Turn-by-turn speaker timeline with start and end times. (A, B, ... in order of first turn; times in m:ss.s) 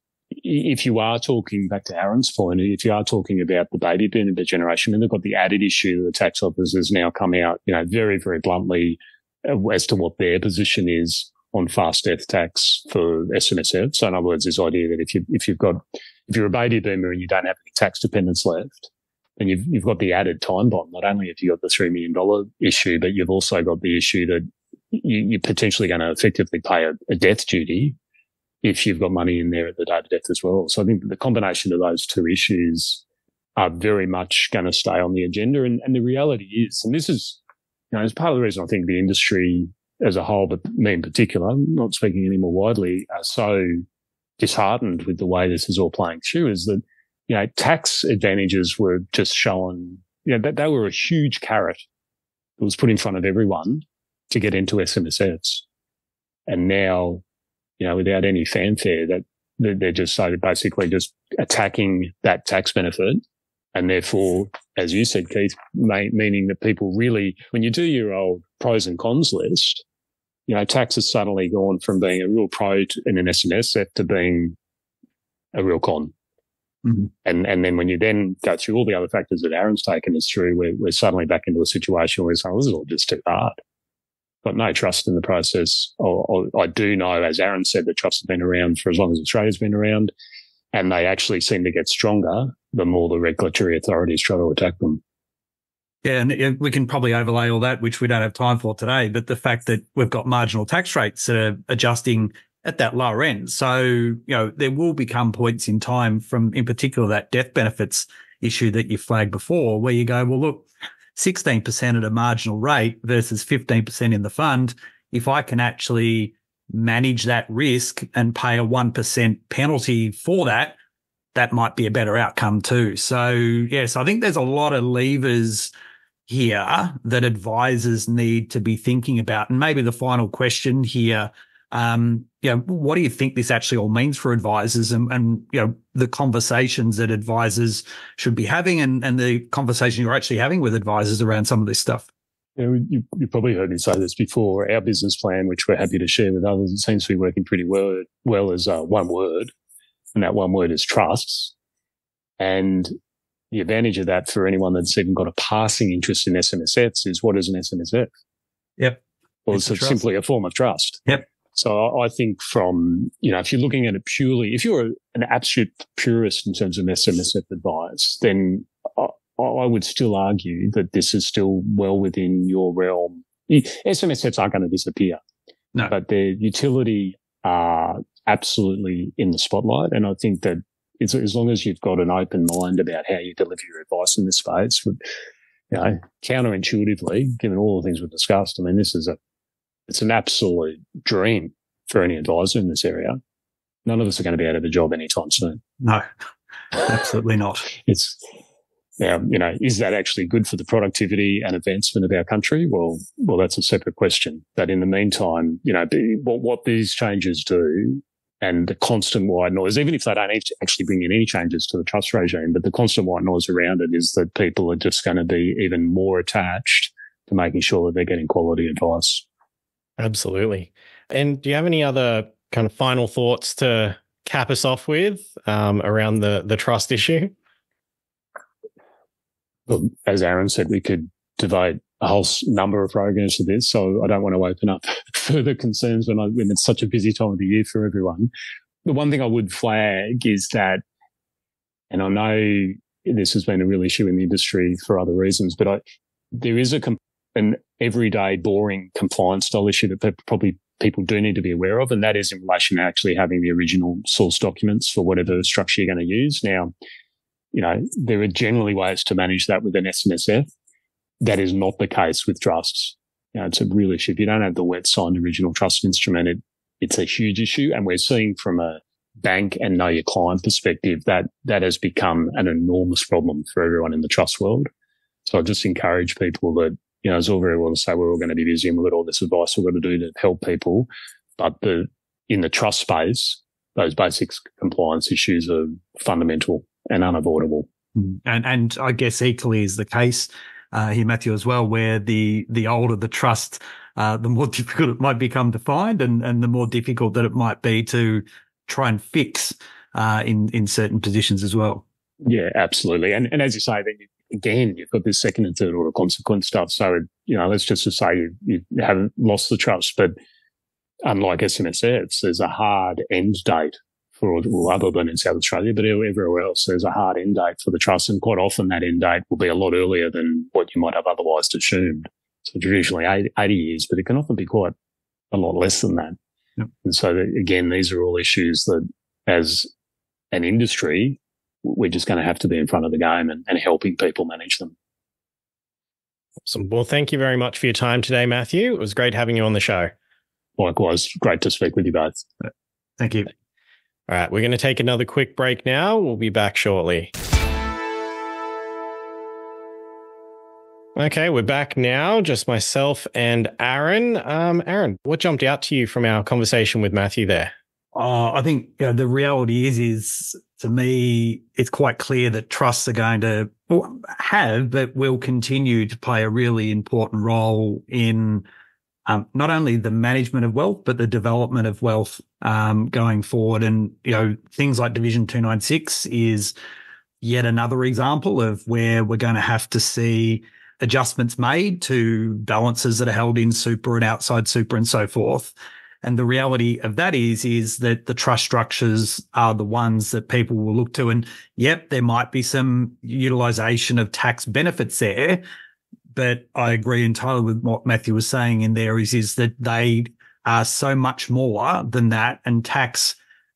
0:00.3-0:28.0 A
0:28.6-0:33.0 A
0:33.6-0:37.4 A
0:37.9-0:43.8 A
0:44.4-0:51.8 A
0:52.6-0:55.6 A
0:56.5-0:57.2 A
0:57.8-1:03.2 A
1:03.7-1:09.8 A
1:10.5-1:14.6 A
1:15.5-1:16.1 A
1:17.2-1:23.6 A
1:24.4-1:30.1 A
1:30.7-1:35.0 A
1:36.0-2:00.8 B
2:01.4-2:05.7 B
2:06.3-2:22.1 B
2:22.6-2:29.5 A
2:30.2-2:31.5 A
2:32.4-2:32.9 A
2:33.5-2:38.1 A
2:39.5-2:55.2 A
2:39.5-2:40.0 B
2:55.9-3:05.0 A
3:05.7-3:09.2 A
3:09.9-3:13.2 A
3:13.9-3:15.6 A
3:16.7-3:17.7 B
3:17.9-3:18.2 A
3:19.0-3:39.2 A
3:40.0-3:47.3 C
3:49.7-3:58.3 A
3:58.8-4:00.8 A
4:01.9-4:05.8 A
4:06.3-4:16.7 A
4:17.5-4:20.5 A
4:21.2-4:34.7 A
4:35.2-4:47.7 A
4:48.0-5:01.8 B
5:02.2-5:10.1 A
5:11.0-5:24.8 A
5:25.3-5:26.2 A
5:26.8-5:29.7 A
5:30.3-5:34.8 A
5:36.5-5:39.9 C
5:40.6-5:42.2 A
5:43.0-5:43.3 B
5:44.1-5:47.1 C
5:51.0-5:57.5 C
5:58.0-6:08.5 B
6:09.1-6:16.5 B
6:17.2-6:35.4 B
6:36.1-6:43.2 B